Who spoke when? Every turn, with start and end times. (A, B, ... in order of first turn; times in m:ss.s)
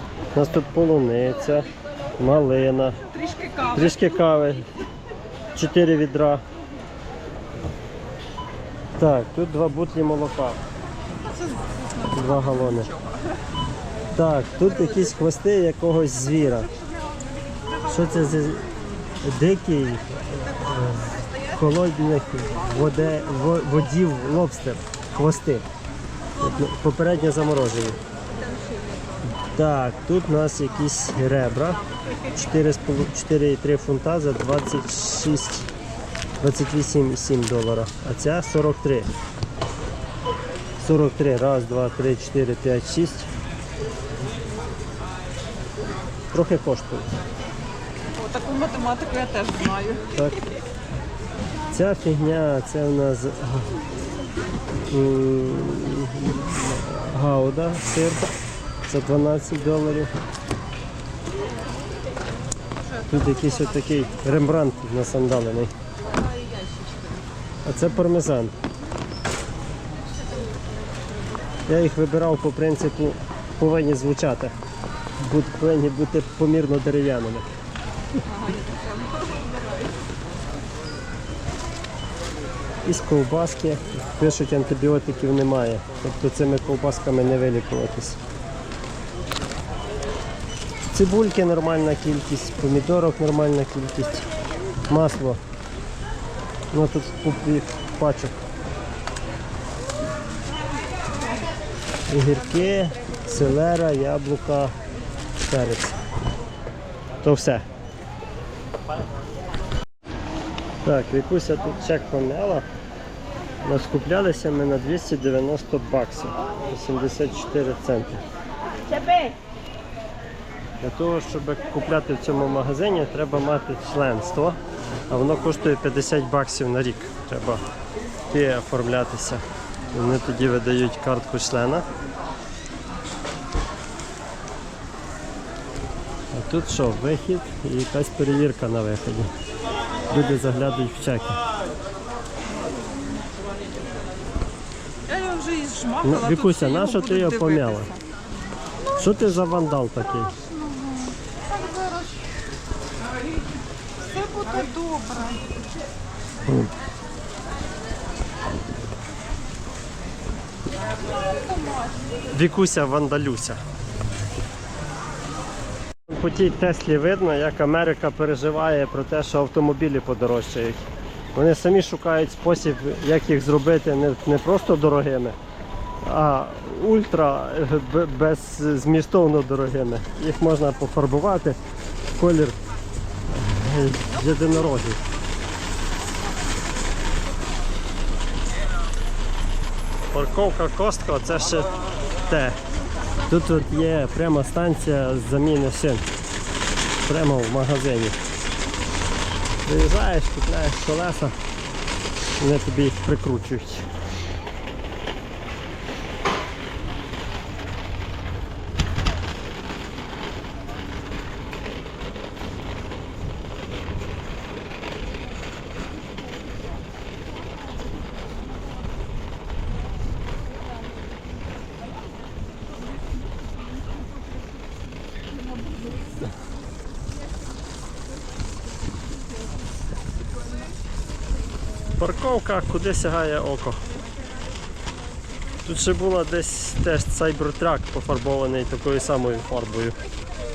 0:00.3-0:03.0 A
0:03.1-0:03.8 B
0:03.7-0:04.7 A
0:05.5-0:06.4 A
0:09.0-0:10.6 A
0:11.3-0:13.0 B
0:12.1-0:12.9 A
0:14.1-0:16.7 A
0:17.8-0:18.7 A
0:19.2-0:25.6 A
0:26.4-0:28.0 A
0:29.5-0:31.8 A
0:32.3-0:35.7 A
0:36.4-0:39.1 A
0:40.8-0:43.3 A
0:46.3-0:47.1 A
0:48.2-0:50.1 B
0:50.1-0:50.4 A
0:51.7-0:53.7 A
0:54.9-0:58.3 A
0:58.9-1:00.1 A
1:03.1-1:05.7 A
1:06.3-1:07.0 B
1:07.6-1:08.5 A
1:11.7-1:14.5 A
1:15.2-1:17.4 A
1:18.2-1:19.6 B
1:22.8-1:28.2 A
1:30.9-1:34.3 A
1:34.9-1:35.4 A
1:36.7-1:38.3 A
1:42.1-1:44.7 A
1:45.4-1:46.0 A
1:47.2-1:47.6 A
1:50.8-1:52.6 A
1:53.6-1:58.2 A
2:00.8-2:04.6 A
2:05.1-2:07.6 A
2:08.3-2:11.8 A
2:16.3-2:19.3 A
2:20.1-2:21.4 A
2:25.1-2:28.0 B
2:26.0-2:27.9 A
2:29.0-2:30.3 A
2:30.4-2:32.2 B
2:34.1-2:35.6 B
2:41.5-2:41.9 B
2:42.3-2:43.6 A
2:46.1-2:50.8 A
2:51.3-2:55.4 A
2:56.0-3:01.6 A
3:02.1-3:02.6 A
3:03.3-3:05.0 A
3:10.1-3:11.7 A
3:12.2-3:12.6 A
3:13.3-3:16.0 A
3:17.0-3:18.2 A
3:19.6-3:21.4 A
3:22.4-3:23.8 A
3:52.0-3:53.8 A
3:55.6-4:00.0 A